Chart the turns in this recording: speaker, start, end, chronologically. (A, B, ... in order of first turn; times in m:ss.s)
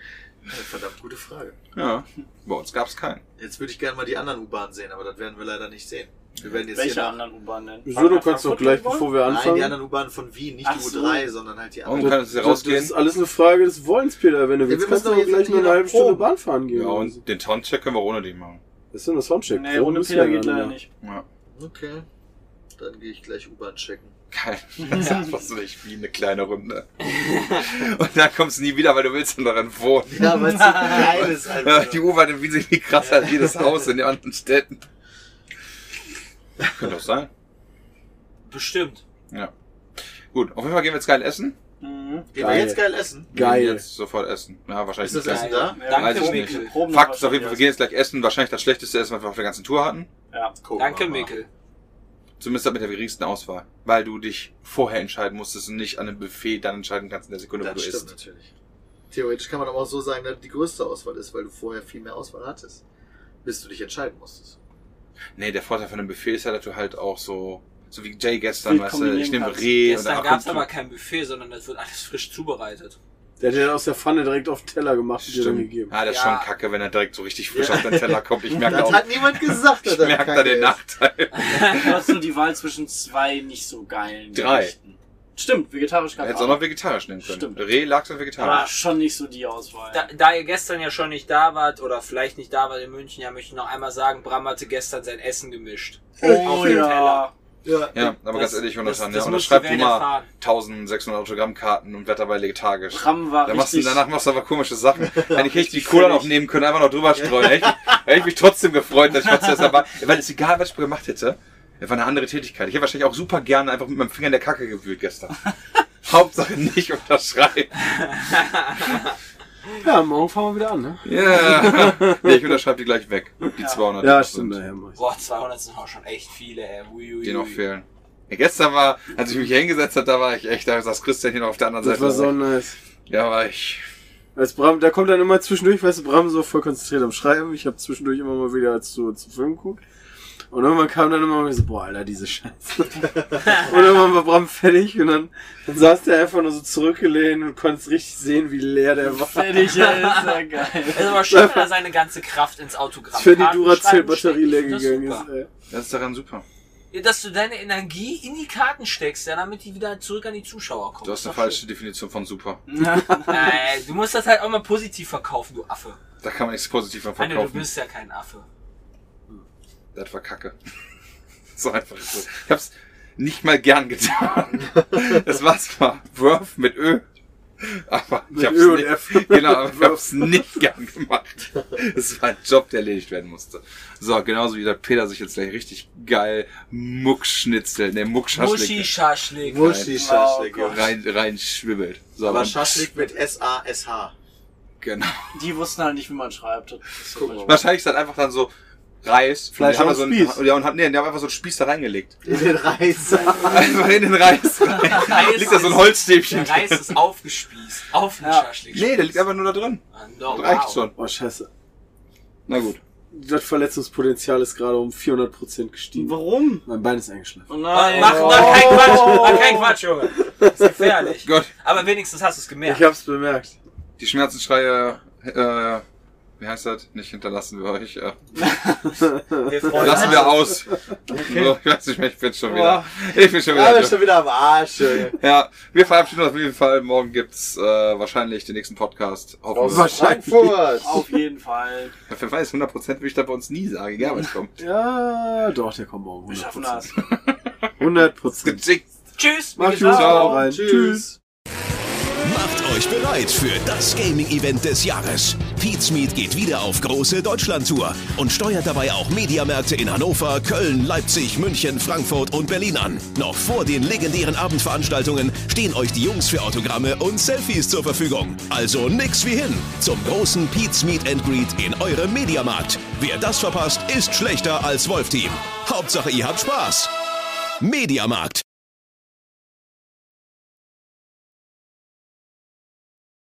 0:00.5-0:01.6 A
0:01.7-0:03.2 B
0:03.4-0:07.2 A
0:06.7-0:09.1 C
0:07.8-0:09.8 D
0:09.2-0:12.3 A
0:10.6-0:11.3 C
0:11.8-0:12.9 B
0:11.9-0:17.2 D
0:14.7-0:16.3 A
0:16.7-0:18.6 B
0:18.9-0:20.8 D
0:19.5-0:20.9 C
0:21.5-0:22.0 A
0:22.8-0:24.1 A
0:24.3-0:34.8 B
0:30.1-0:32.1 A
0:33.0-0:33.7 A
0:36.7-0:37.3 B
0:38.5-0:39.0 E
0:40.3-0:41.6 B
0:41.8-0:42.3 C
0:42.3-0:43.3 A
0:42.4-0:42.8 D
0:43.3-0:43.8 D
0:43.3-0:50.1 B
0:45.0-0:45.9 A
0:45.2-0:46.7 E
0:45.7-0:47.6 C
0:50.6-0:51.3 A
0:50.7-0:51.5 E
0:52.4-0:58.1 B
0:57.6-0:58.5 A
0:59.1-1:02.8 A
1:03.4-1:04.6 A
1:05.4-1:10.6 B
1:08.6-1:09.9 C
1:09.8-1:13.0 E
1:13.4-1:15.9 D
1:15.2-1:22.1 B
1:16.0-1:16.5 E
1:17.5-1:20.8 A
1:21.4-1:21.8 E
1:21.5-1:27.6 C
1:24.3-1:24.7 B
1:26.2-1:28.7 B
1:28.3-1:30.1 C
1:28.4-1:28.7 E
1:29.9-1:37.3 E
1:36.2-1:37.3 C
1:36.2-1:36.8 A
1:37.6-1:38.1 A
1:37.9-1:57.8 B
1:38.3-1:40.3 E
1:42.9-1:44.0 C
1:45.2-1:45.4 A
1:45.4-1:46.3 C
1:47.2-1:47.8 A
1:58.2-1:59.1 E
1:59.8-2:02.6 D
2:01.0-2:04.6 B
2:03.6-2:03.8 C
2:04.0-2:05.0 D
2:05.0-2:07.6 E
2:07.2-2:12.4 B
2:11.8-2:12.8 D
2:13.1-2:13.8 B
2:14.3-2:19.8 D
2:20.5-2:29.8 D
2:29.1-2:31.2 C
2:29.7-2:35.3 E
2:31.2-2:31.7 D
2:33.1-2:35.5 D
2:35.7-2:36.4 B
2:36.9-2:41.6 E
2:41.0-2:42.6 B
2:42.7-2:43.4 C
2:43.2-2:46.0 E
2:46.2-2:47.7 B
2:47.2-2:48.4 E
2:49.9-2:50.5 B
2:51.6-2:57.0 B
2:57.6-3:10.0 B
2:58.3-3:00.5 D
3:08.3-3:09.7 E
3:09.4-3:10.9 A
3:09.9-3:10.9 C
3:10.6-3:12.9 B
3:12.2-3:14.1 A
3:14.8-3:15.3 B
3:15.3-3:17.7 C
3:17.2-3:17.6 A
3:17.4-3:18.5 B
3:19.0-3:22.2 B
3:19.5-3:20.4 D
3:22.2-3:23.9 A
3:23.4-3:26.9 B
3:24.7-3:29.2 E
3:28.2-3:28.5 C
3:28.7-3:30.9 B
3:29.9-3:30.8 E
3:31.0-3:31.5 D
3:32.5-3:32.8 B
3:33.1-3:39.6 D
3:35.9-3:36.6 C
3:37.5-3:39.8 C
3:37.7-3:42.9 E
3:40.2-3:40.8 D
3:41.2-3:41.5 B
3:42.6-3:43.6 D
3:44.0-3:45.8 B
3:46.4-3:48.2 B
3:48.4-3:48.8 C
3:49.4-3:50.4 E
3:49.7-3:50.4 A
3:49.7-3:54.2 B
3:51.1-3:51.5 A
3:53.5-3:55.2 A
3:55.1-3:59.9 B
3:59.5-4:01.0 D
3:59.6-4:01.0 A
4:00.8-4:01.9 C
4:02.1-4:04.6 B
4:04.6-4:06.9 D
4:06.3-4:07.0 C
4:07.0-4:07.4 B
4:07.8-4:08.6 D
4:08.4-4:08.8 B
4:09.2-4:10.4 E
4:09.6-4:11.0 D
4:09.6-4:10.5 B
4:10.0-4:11.2 A
4:12.2-4:36.9 F
4:37.6-4:38.4 F